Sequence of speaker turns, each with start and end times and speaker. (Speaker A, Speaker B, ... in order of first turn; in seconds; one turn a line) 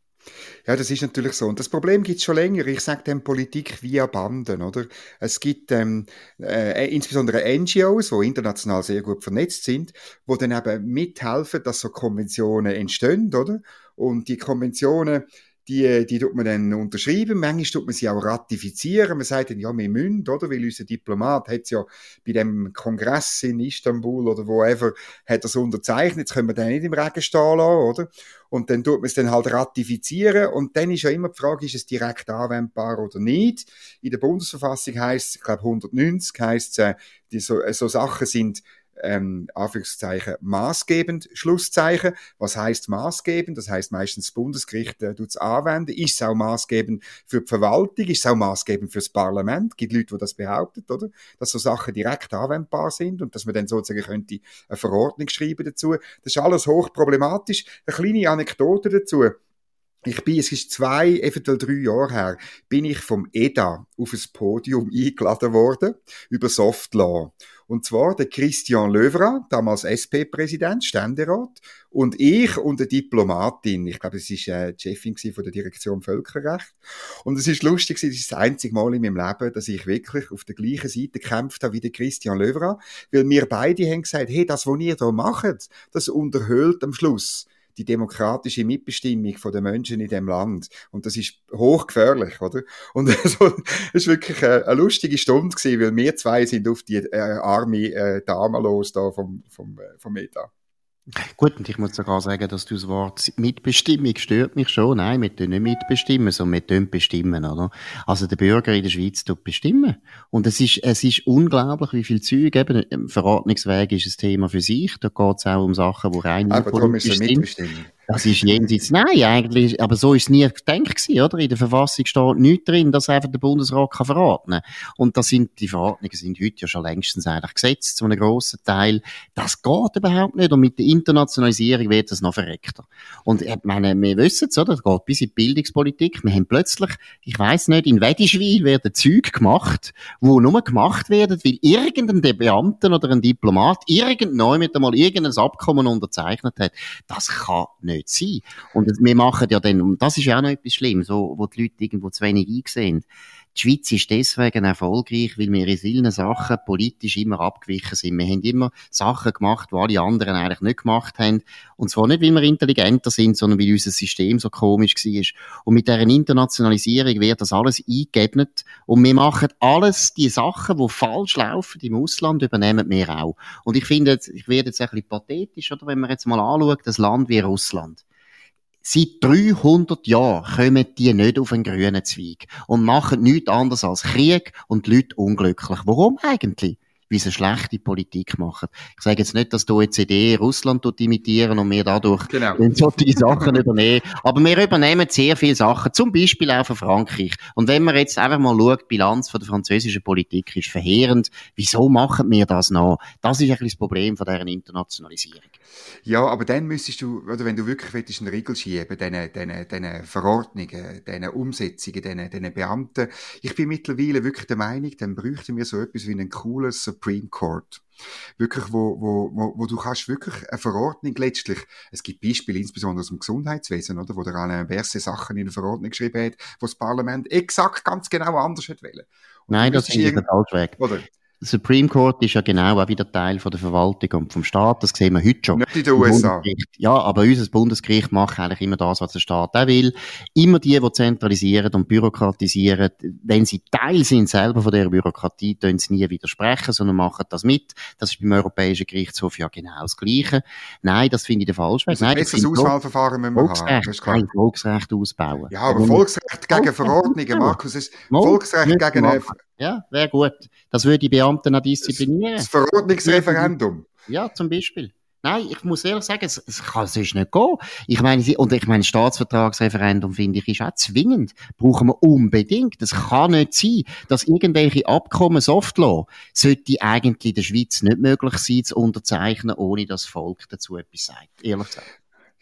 Speaker A: 0.7-59.4
Speaker A: 60.0-100.5
Speaker B: 101.4-117.5
Speaker A: 116.5-118.7
Speaker B: 118.1-178.0
Speaker B: 178.8-205.6
Speaker A: 192.3-192.7
Speaker A: 193.2-193.6
Speaker A: 206.1-217.8
Speaker A: 218.4-230.2
Speaker B: 229.5-230.8
Speaker A: 230.8-231.1
Speaker B: 231.4-252.7
Speaker A: 235.5-236.5
Speaker A: 251.9-254.2
Speaker B: 253.3-257.6
Speaker A: 255.5-259.3
Speaker B: 258.1-262.5
Speaker A: 261.8-263.9
Speaker B: 263.0-263.5
Speaker B: 264.1-281.9